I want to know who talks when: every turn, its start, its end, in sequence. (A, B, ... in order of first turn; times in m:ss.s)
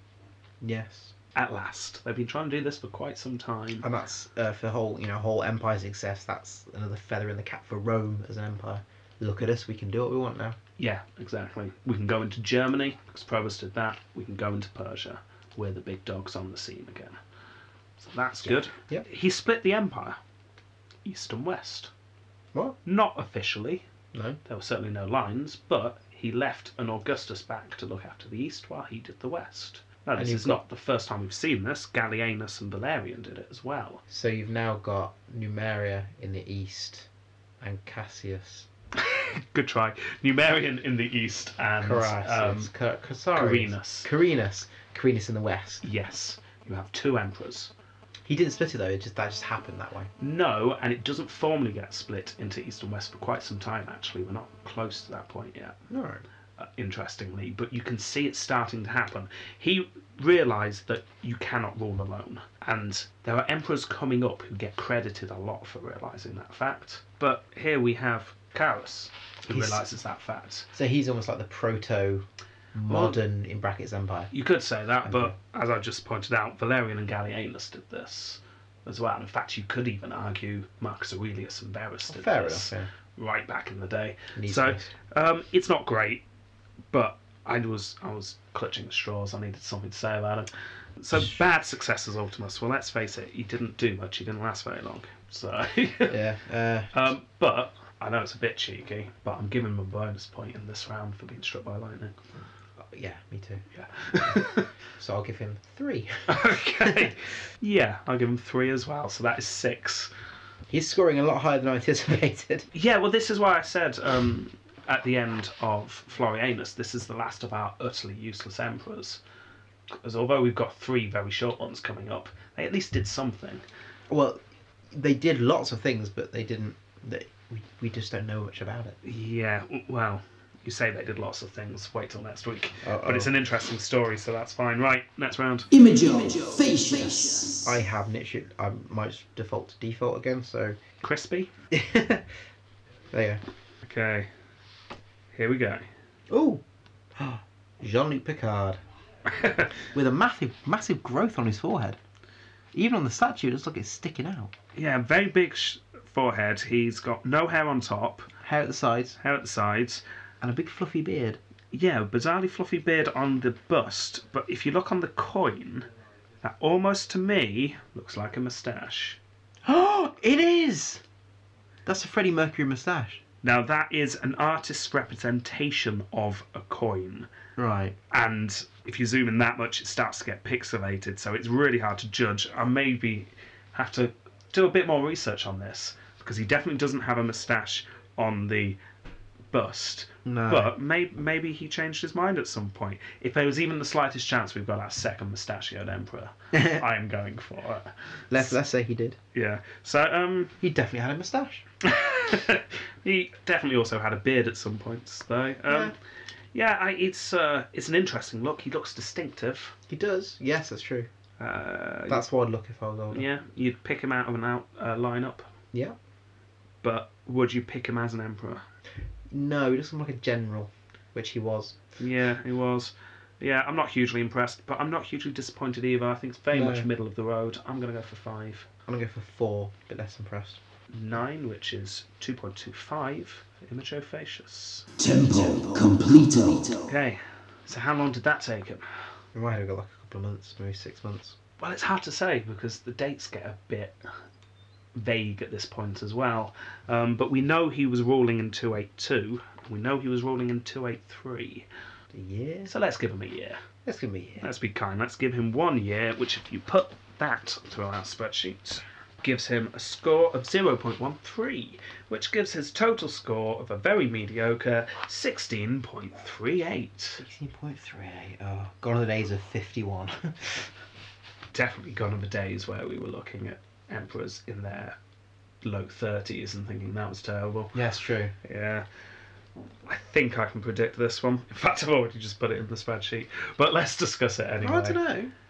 0:00.6-0:01.1 A
0:01.3-0:03.8 B
0:03.8-0:10.6 A
0:10.8-0:17.2 B
0:18.0-0:20.2 B
0:18.4-0:19.0 A
0:21.0-0:21.9 B
0:22.8-0:23.8 B
0:24.1-0:24.4 A
0:24.4-0:34.0 B
0:30.2-0:30.6 A
0:34.1-0:37.1 A
0:37.6-0:38.7 A
0:39.0-0:42.7 B
0:41.8-0:45.8 A
0:43.3-0:44.1 B
0:45.8-0:47.7 B
0:48.2-0:50.1 A
0:50.2-0:55.8 B
0:55.9-0:56.2 A
0:56.6-1:10.7 B
1:09.5-1:09.8 A
1:10.7-1:14.3 A
1:12.9-1:13.2 B
1:14.3-1:26.2 B
1:15.0-1:15.3 A
1:22.1-1:22.9 A
1:24.3-1:24.9 A
1:26.9-1:36.2 B
1:36.1-1:37.1 A
1:36.9-1:42.2 B
1:42.8-1:47.1 A
1:43.7-1:44.7 B
1:46.3-1:50.1 B
1:50.7-1:52.7 A
1:52.7-1:59.2 B
1:59.9-2:03.6 B
2:04.1-2:09.0 A
2:09.0-2:15.7 B
2:12.8-2:13.3 A
2:15.7-2:17.7 C
2:17.6-2:20.8 A
2:21.0-2:21.5 B
2:21.7-2:22.2 A
2:23.1-2:23.4 A
2:23.8-2:24.3 B
2:25.3-2:25.8 B
2:26.3-2:26.6 A
2:27.2-2:28.8 A
2:29.3-2:29.7 B
2:29.9-2:32.0 A
2:32.7-2:34.5 A
2:34.7-2:38.3 B
2:38.4-2:39.2 A
2:39.2-2:40.0 B
2:40.4-2:41.4 A
2:41.7-2:45.9 B
2:46.4-2:49.2 B
2:49.6-2:51.0 A
2:51.8-2:53.2 A
2:53.4-2:57.3 B
2:57.6-2:58.0 A
2:58.1-3:08.8 B
3:09.5-3:18.6 B
3:10.2-3:10.7 A
3:16.5-3:16.8 A
3:18.3-3:19.2 A
3:19.3-3:20.5 B
3:20.6-3:21.6 A
3:21.8-3:25.9 B
3:25.7-3:25.9 A
3:26.5-3:29.8 B
3:29.9-3:31.1 A
3:31.4-3:32.2 B
3:32.1-3:33.3 A
3:33.1-3:35.5 B
3:36.8-3:38.6 B
3:39.3-3:41.8 A
3:42.0-3:48.7 B
3:46.5-3:46.9 A
3:48.8-3:50.6 A
3:50.9-3:54.9 B
3:55.0-3:56.9 C
3:56.9-3:58.8 B
3:59.3-4:01.4 A
4:01.6-4:04.0 B
4:04.9-4:11.7 B
4:12.1-4:12.7 A
4:12.6-4:13.6 B
4:13.8-4:14.5 A
4:14.4-4:27.2 B
4:27.2-4:30.7 A
4:31.5-4:35.0 B
4:35.6-4:37.8 B
4:37.7-4:38.3 A
4:38.4-4:38.8 B
4:39.9-4:45.0 B
4:44.6-4:45.3 A